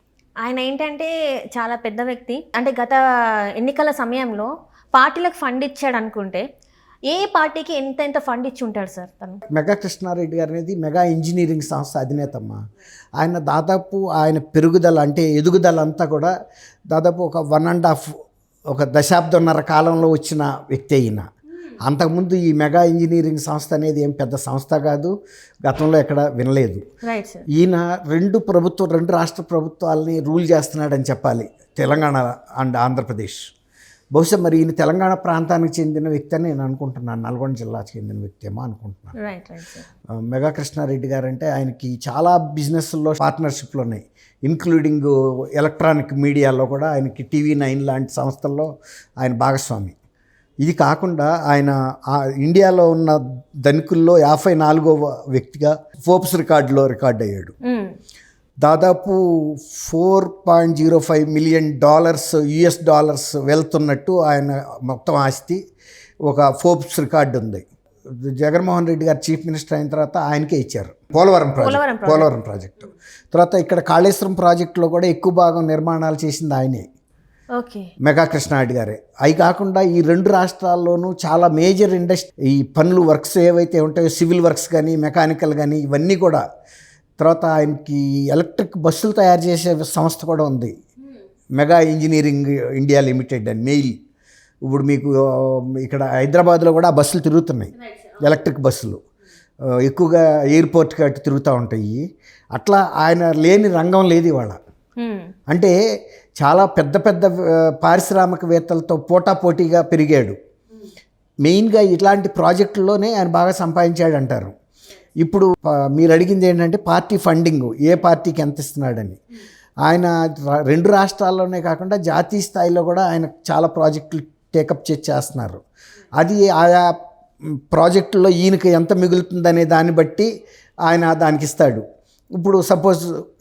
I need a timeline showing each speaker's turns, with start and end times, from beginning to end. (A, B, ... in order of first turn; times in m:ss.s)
0:00.4-0:03.0 A
0:03.6-0:06.4 A
0:07.1-0:09.4 A
0:09.5-0:12.6 B
0:13.2-0:16.3 B
0:16.9-0:18.1 B
0:18.7-0:21.2 B
0:21.8-0:25.1 B
0:25.6-0:26.8 B
0:27.0-0:27.4 A
0:27.5-0:33.4 B
0:34.2-0:39.1 B
0:39.2-0:39.9 A
0:40.3-0:48.7 B
0:49.2-0:50.0 B
0:50.6-0:57.5 B
0:57.6-0:58.0 A
0:58.6-1:05.6 B
1:06.3-1:16.9 B
1:11.6-1:12.3 A
1:17.6-1:17.9 A
1:18.0-1:26.4 B
1:27.2-1:30.7 B
1:31.6-1:33.9 B
1:34.7-1:39.0 B
1:39.8-1:42.0 B
1:42.6-1:44.6 B
1:45.0-1:45.3 A
1:46.4-1:50.4 B
1:51.4-1:54.5 B
1:55.2-1:59.2 B
1:59.8-2:05.6 B
2:06.2-2:06.9 B
2:07.7-2:10.3 B
2:10.9-2:11.8 B
2:12.4-2:13.1 B